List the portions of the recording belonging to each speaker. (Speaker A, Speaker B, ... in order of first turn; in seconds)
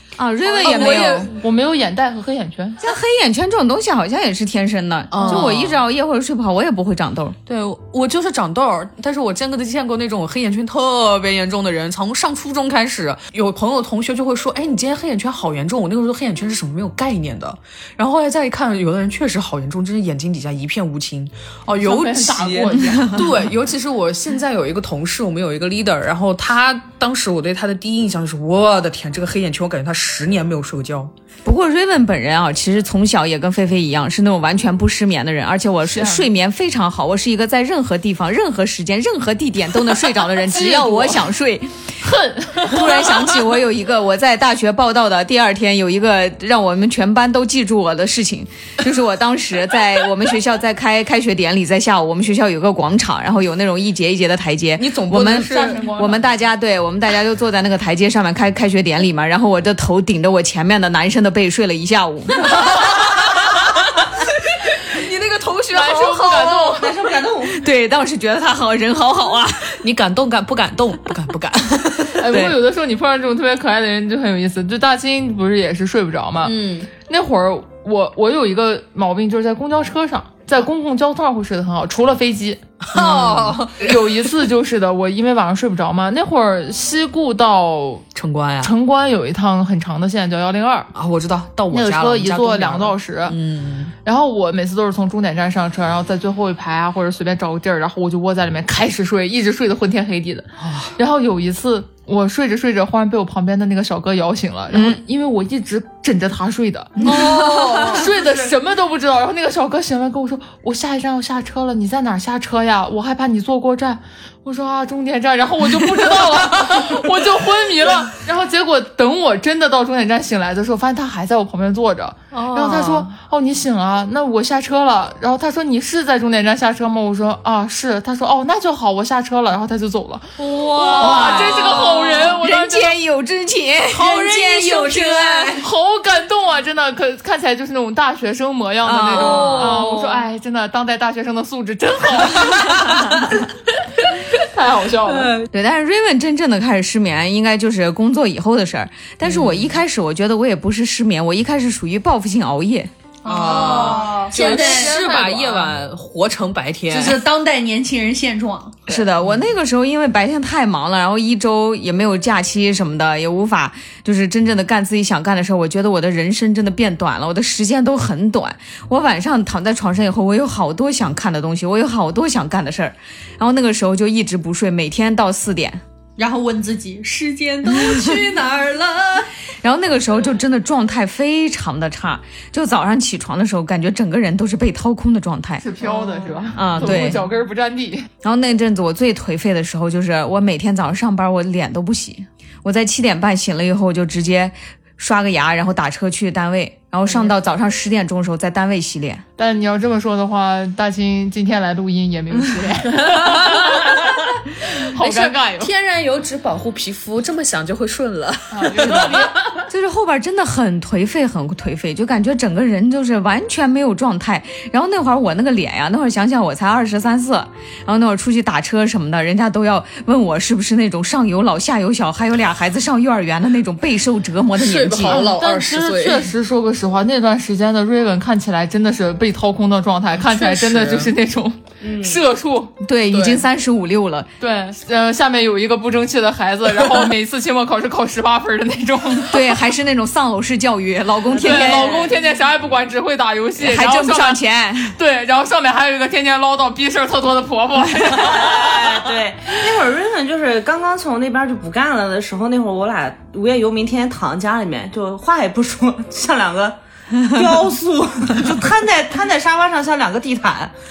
Speaker A: 0.2-1.3, 2.8-7.4, 31.4-41.7, 42.6-62.7, 67.5-69.7, 72.3-72.6, 104.7-105.0, 130.8-135.6, 138.8-139.9, 145.5-152.9, 158.9-175.8, 179.6-185.6, 186.6-187.2, 188.2-199.2, 209.7-225.3, 232.8-234.3, 239.3-242.1, 243.6-244.9
Speaker B: 0.5-2.8, 5.2-5.5, 21.7-23.3, 35.9-36.3, 40.5-41.1, 42.0-43.1, 55.4-56.3, 65.7-67.0, 72.2-76.5, 77.1-88.1, 88.6-90.9, 91.7-93.4, 94.0-133.0, 135.6-143.1, 144.3-145.3, 153.4-155.6, 185.6-188.1, 197.1-197.3, 199.4-205.7, 208.5-209.6, 225.1-232.7, 234.4-239.6, 241.3-249.0
Speaker C: 0.6-1.3, 5.1-5.8, 7.5-31.1, 54.8-55.9, 62.4-64.0, 64.7-66.9, 69.8-72.2, 76.4-76.9, 82.9-84.4, 88.2-88.7, 90.9-93.9, 100.6-100.9, 107.2-107.7, 122.3-123.0, 130.7-131.5, 149.2-149.8, 153.2-157.2, 158.9-159.5, 203.3-204.0, 205.0-209.3, 224.6-226.3, 230.2-231.1, 233.1-233.5
Speaker D: 66.7-67.7, 231.8-232.2, 241.8-242.1, 248.1-260.8
Speaker E: 107.0-108.1, 130.5-132.1, 133.9-135.7, 139.2-140.2, 153.2-155.5, 156.9-158.8, 176.2-179.3